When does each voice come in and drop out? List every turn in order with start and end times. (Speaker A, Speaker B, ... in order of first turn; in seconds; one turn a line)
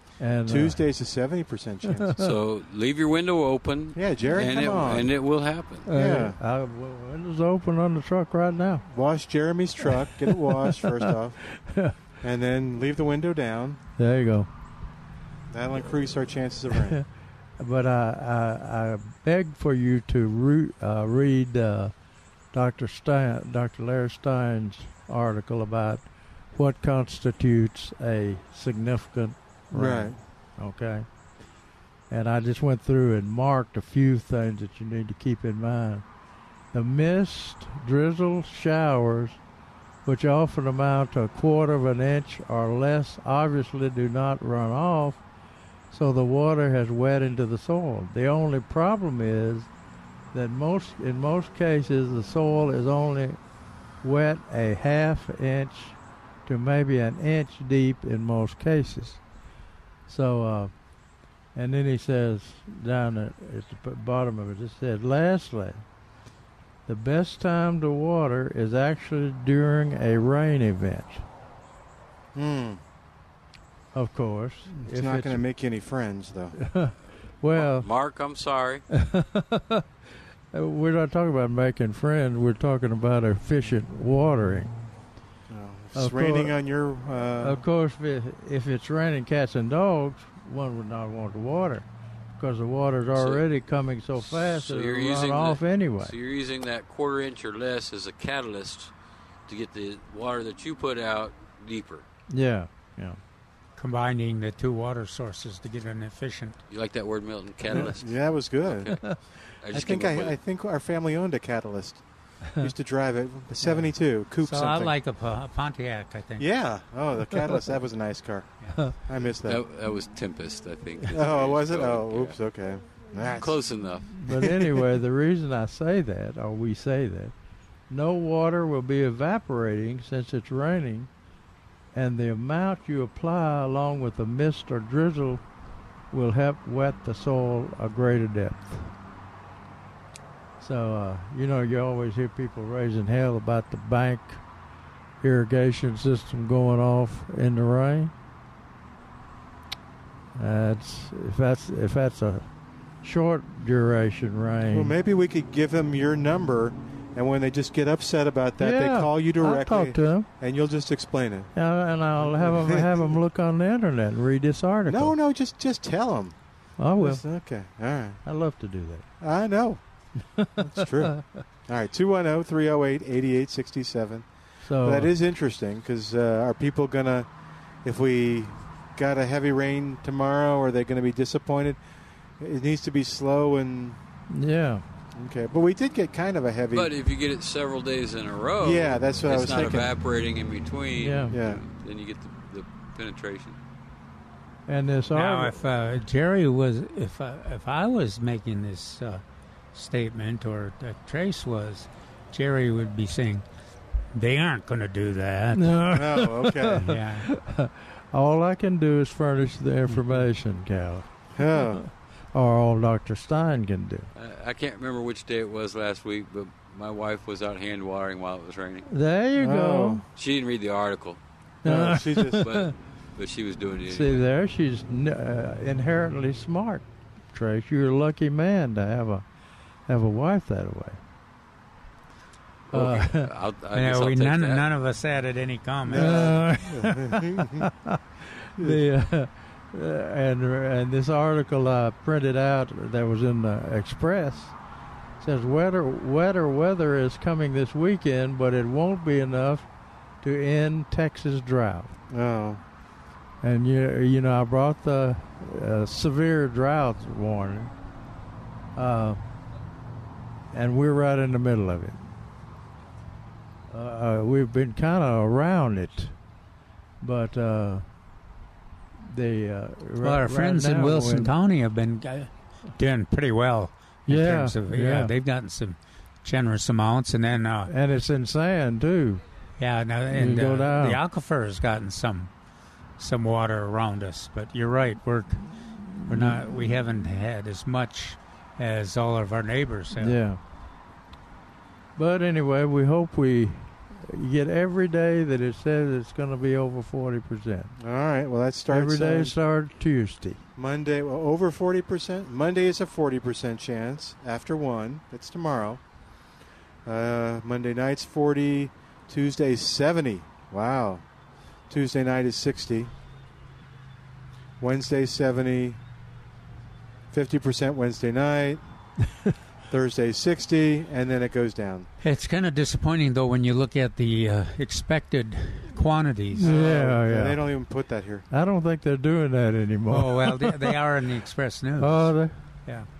Speaker A: 0.2-0.9
Speaker B: 0.4-2.2
Speaker A: 1.9-2.3
Speaker C: 2.2-5.9
Speaker B: 3.9-5.1
Speaker A: 5.8-8.8
Speaker B: 5.9-6.4
Speaker B: 8.9-11.4
Speaker A: 9.8-11.9
Speaker B: 12.2-13.8
Speaker A: 14.0-14.5
Speaker B: 15.5-17.0
Speaker A: 16.7-17.0
Speaker A: 17.6-21.9
Speaker A: 22.5-31.1
Speaker B: 29.7-30.2
Speaker A: 32.1-36.0
Speaker A: 36.7-39.4
Speaker A: 40.0-45.2
Speaker A: 45.9-49.7
Speaker A: 50.3-53.4
Speaker A: 54.0-59.2
Speaker A: 60.1-60.7
Speaker A: 61.5-65.8
Speaker A: 66.8-71.2
Speaker B: 72.3-72.8
Speaker A: 73.9-75.4
Speaker B: 74.7-76.6
Speaker A: 76.5-77.9
Speaker C: 77.5-78.8
Speaker A: 78.9-79.8
Speaker A: 80.5-84.7
Speaker B: 85.5-87.6
Speaker A: 85.9-86.6
Speaker A: 87.4-91.9
Speaker A: 92.4-96.1
Speaker C: 93.1-93.5
Speaker C: 94.2-98.9
Speaker C: 99.5-102.0
Speaker A: 102.3-103.2
Speaker D: 103.8-106.6
Speaker C: 106.7-109.0
Speaker B: 107.7-109.0
Speaker A: 108.9-109.2
Speaker C: 109.6-110.4
Speaker B: 109.7-112.0
Speaker B: 112.6-114.9
Speaker D: 113.7-116.5
Speaker B: 116.4-119.6
Speaker C: 119.4-122.4
Speaker B: 121.1-123.6
Speaker C: 123.3-124.1
Speaker A: 124.2-127.3
Speaker B: 124.2-124.8
Speaker A: 127.9-131.1
Speaker A: 131.9-135.4
Speaker A: 136.1-138.9
Speaker A: 140.6-144.4
Speaker A: 145.2-148.1
Speaker A: 150.3-152.5
Speaker A: 153.0-154.9
Speaker B: 154.7-161.5
Speaker A: 158.6-160.3
Speaker A: 161.5-165.1
Speaker B: 162.2-163.1
Speaker B: 164.9-166.3
Speaker A: 166.8-167.2
Speaker B: 167.0-168.2
Speaker A: 168.2-169.1
Speaker B: 169.2-169.8
Speaker A: 170.2-171.4
Speaker B: 170.6-174.3
Speaker A: 174.6-175.1
Speaker B: 174.8-177.3
Speaker B: 177.8-181.8
Speaker B: 182.4-184.0
Speaker A: 184.3-184.8
Speaker B: 185.2-186.9
Speaker C: 186.7-193.6
Speaker B: 188.6-189.9
Speaker A: 191.0-191.3
Speaker B: 191.3-191.6
Speaker A: 194.7-195.6
Speaker D: 195.1-199.2
Speaker D: 199.7-203.4
Speaker D: 204.1-205.8
Speaker A: 205.5-214.1
Speaker B: 205.9-206.9
Speaker D: 206.8-207.3
Speaker B: 211.3-211.8
Speaker C: 214.1-218.9
Speaker A: 218.8-220.0
Speaker B: 219.4-220.0
Speaker C: 220.2-221.2
Speaker A: 221.6-222.7
Speaker B: 221.6-222.4
Speaker C: 222.4-224.2
Speaker A: 223.8-229.2
Speaker A: 229.9-231.0
Speaker C: 232.7-234.7
Speaker A: 232.7-233.3
Speaker D: 233.7-236.3
Speaker B: 235.9-237.7
Speaker A: 235.9-244.6
Speaker A: 245.2-249.7
Speaker A: 250.2-252.0
Speaker B: 252.1-252.6
Speaker A: 253.4-257.7
Speaker A: 258.7-259.2
Speaker A: 260.5-262.1
Speaker A: 263.7-266.1
Speaker A: 267.0-267.8
Speaker A: 269.0-271.3
Speaker D: 270.0-277.7
Speaker A: 274.1-275.1
Speaker A: 277.7-279.2
Speaker D: 279.6-282.3
Speaker A: 280.1-281.0
Speaker D: 283.0-290.2
Speaker A: 285.5-286.8
Speaker A: 290.0-290.4
Speaker A: 291.9-297.7
Speaker B: 297.8-299.4
Speaker A: 298.7-300.4
Speaker B: 300.6-305.8
Speaker B: 306.9-311.0
Speaker B: 311.7-312.9
Speaker B: 314.6-315.8
Speaker B: 317.1-318.6
Speaker B: 319.7-321.9
Speaker D: 322.0-326.5
Speaker B: 326.4-328.2
Speaker A: 326.4-327.5
Speaker A: 328.3-330.8
Speaker D: 329.9-332.9
Speaker A: 331.8-332.4